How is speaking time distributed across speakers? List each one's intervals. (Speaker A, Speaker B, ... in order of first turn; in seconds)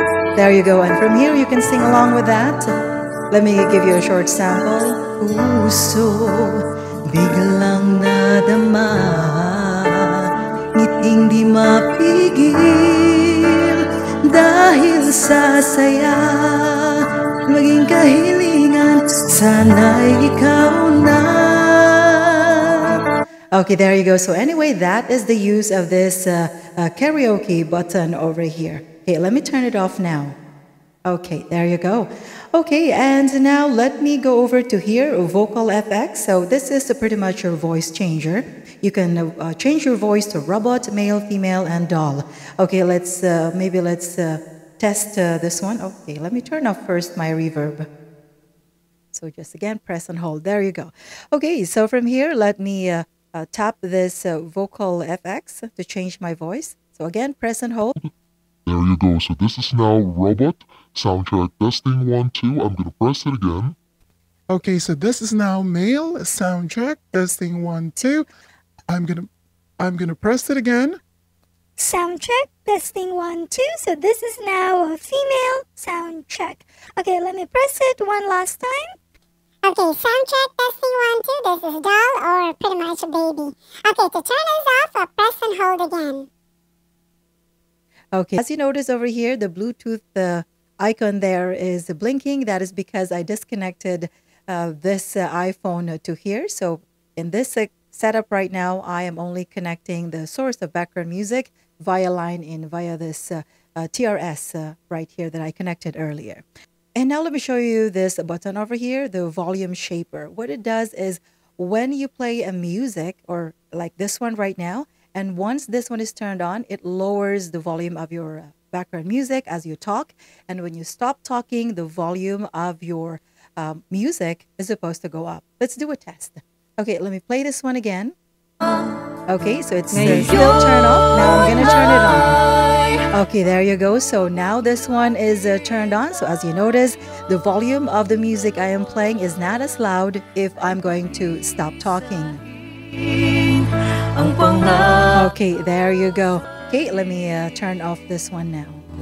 Speaker A: 0.3-2.7, 3.3-10.2, 10.8-22.9, 23.5-30.4, 31.1-47.9, 49.1-57.9, 88.1-106.4, 107.0-128.1, 129.3-132.4, 133.1-142.4, 144.2-148.8
Speaker B: 58.7-63.8
Speaker C: 64.5-68.3, 68.9-71.0
Speaker D: 71.8-78.9
Speaker E: 79.6-86.3